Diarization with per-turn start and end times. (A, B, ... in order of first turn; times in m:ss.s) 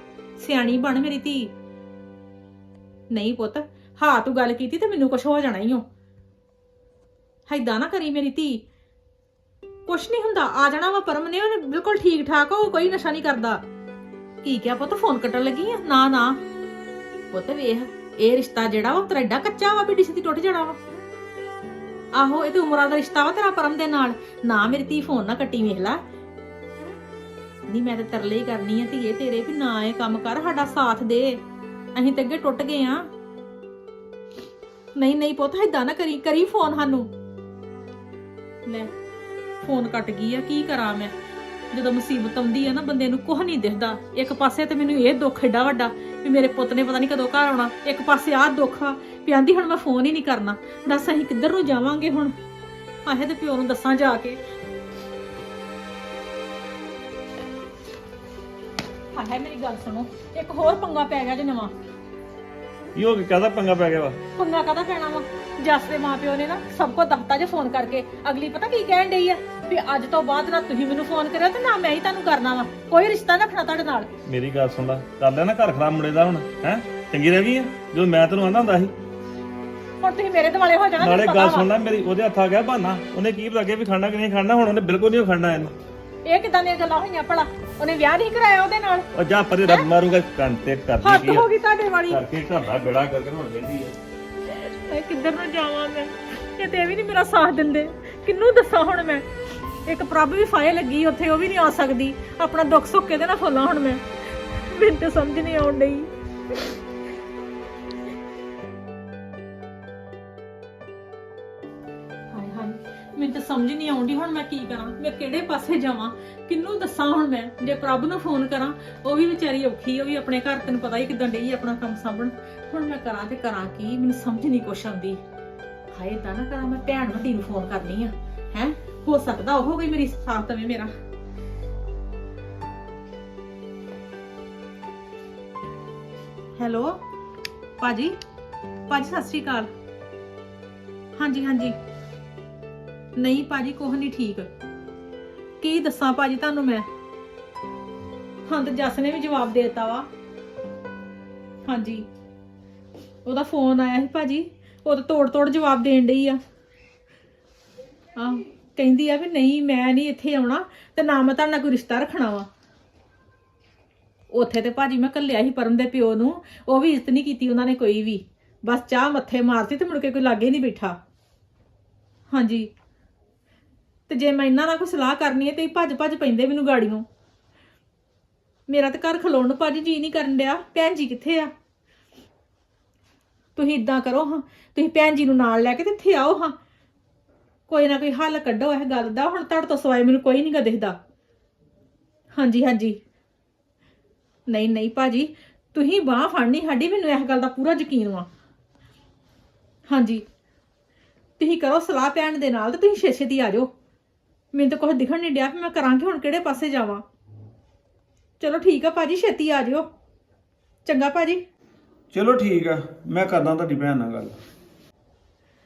0:00.4-0:01.5 A
0:03.1-0:05.8 A
0:07.5-0:08.6 A
0:09.9-0:13.6 A
0:14.4-0:16.4 A
0:17.3-0:20.8 A
0:22.2-0:26.0 A
0:27.7-0:31.4 A
0:32.0-0:33.1 A
0:35.0-0:37.1 A
0:39.6-0:41.1 A
0:41.7-0:52.3 A
0:53.0-0:54.4 A
0:59.1-1:01.7 A
1:03.0-1:04.2 B
1:04.4-1:14.1 A
1:14.3-1:18.9 B
1:20.0-1:21.7 A
1:21.0-1:25.7 B
1:26.2-1:29.1 A
1:29.1-1:31.5 B
1:31.0-1:32.2 A
1:32.1-1:34.0 B
1:34.5-1:39.2 A
1:39.9-1:46.1 A
1:52.3-2:05.2 A
2:05.9-2:10.9 A
2:16.6-2:17.0 A
2:17.8-2:18.2 A
2:18.9-2:19.7 A
2:21.2-2:21.8 A
2:23.2-2:24.5 A
2:25.6-2:26.9 A
2:28.5-2:30.1 A
2:31.7-2:32.1 A
2:33.2-2:36.4 A
2:38.2-2:42.5 A
2:44.3-2:51.0 A
2:52.3-2:52.7 A
2:54.1-2:57.0 A
2:58.7-3:01.5 A
3:03.6-3:06.6 A
3:07.7-3:11.0 A
3:12.4-3:13.0 A
3:14.5-3:18.3 A
3:19.9-3:20.2 A
3:21.4-3:23.7 A
3:24.5-3:27.0 A
3:28.4-3:29.9 A
3:30.8-3:31.4 A
3:32.1-3:34.4 C